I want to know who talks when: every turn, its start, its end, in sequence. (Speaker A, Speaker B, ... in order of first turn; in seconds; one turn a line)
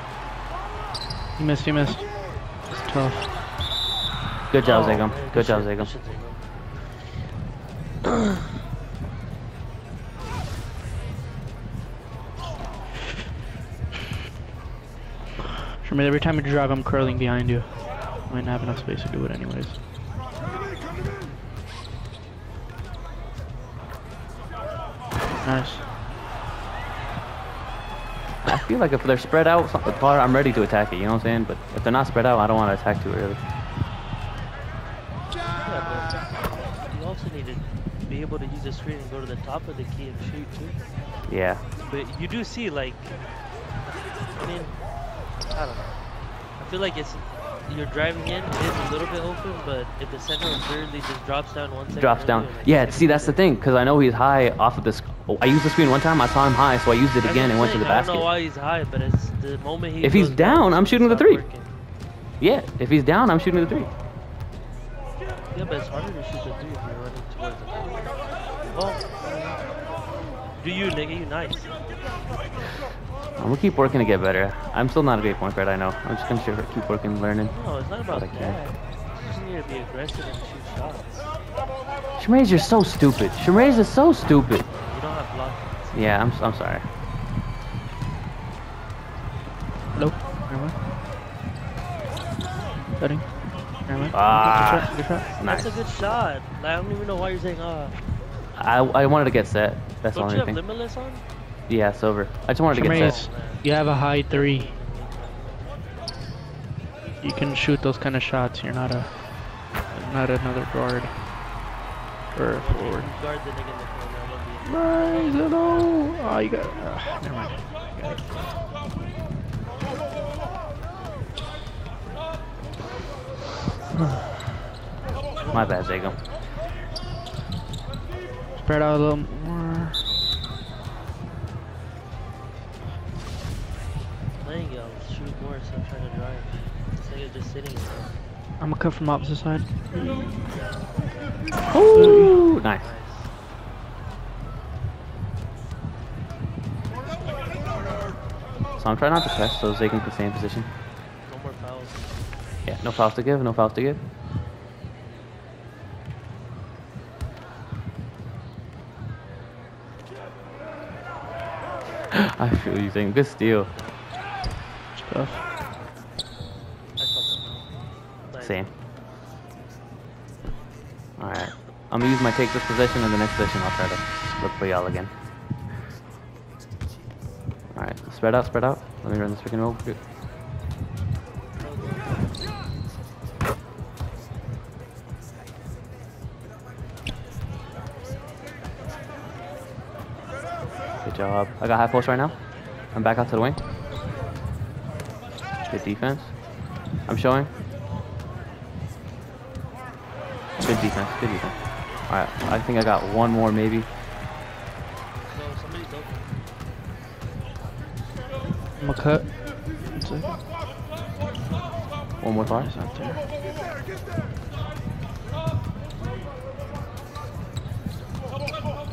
Speaker A: 1.4-3.4
Speaker B: 4.5-5.9
Speaker C: 4.6-6.7
Speaker A: 15.8-19.8
Speaker A: 25.4-25.9
Speaker B: 28.4-33.4
Speaker C: 35.6-40.9
Speaker B: 41.3-41.6
Speaker C: 41.8-43.3
Speaker C: 44.2-53.4
Speaker B: 51.9-58.3
Speaker C: 57.2-61.7
Speaker B: 60.0-61.5
Speaker B: 62.4-63.9
Speaker C: 65.5-69.9
Speaker C: 70.6-72.3
Speaker B: 73.4-78.6
Speaker C: 77.5-81.3
Speaker B: 82.2-84.7
Speaker C: 84.7-86.2
Speaker B: 85.9-86.9
Speaker A: 89.9-90.8
Speaker A: 93.0-95.3
Speaker B: 94.1-96.2
Speaker C: 95.4-98.0
Speaker B: 98.5-100.6
Speaker C: 100.1-101.2
Speaker B: 101.7-103.3
Speaker A: 102.7-104.8
Speaker C: 102.9-105.8
Speaker A: 107.2-111.3
Speaker A: 112.3-113.1
Speaker C: 112.5-115.5
Speaker A: 114.7-118.4
Speaker C: 125.4-126.2
Speaker B: 125.5-126.2
Speaker A: 128.6-130.1
Speaker C: 134.4-138.2
Speaker A: 138.6-140.7
Speaker B: 141.7-142.8
Speaker A: 141.9-142.4
Speaker C: 142.8-143.3
Speaker B: 148.8-150.7
Speaker C: 151.2-152.3
Speaker B: 152.6-154.0
Speaker B: 162.1-163.7
Speaker C: 163.5-164.0
Speaker A: 164.9-165.5
Speaker C: 167.0-168.7
Speaker B: 168.4-168.7
Speaker B: 171.2-175.2
Speaker B: 177.7-180.0
Speaker C: 181.6-182.7
Speaker B: 191.0-193.6
Speaker C: 192.2-192.8
Speaker B: 195.7-197.5
Speaker B: 200.6-203.9
Speaker C: 205.2-206.3
Speaker A: 208.8-210.4
Speaker B: 212.2-212.7
Speaker A: 212.4-213.2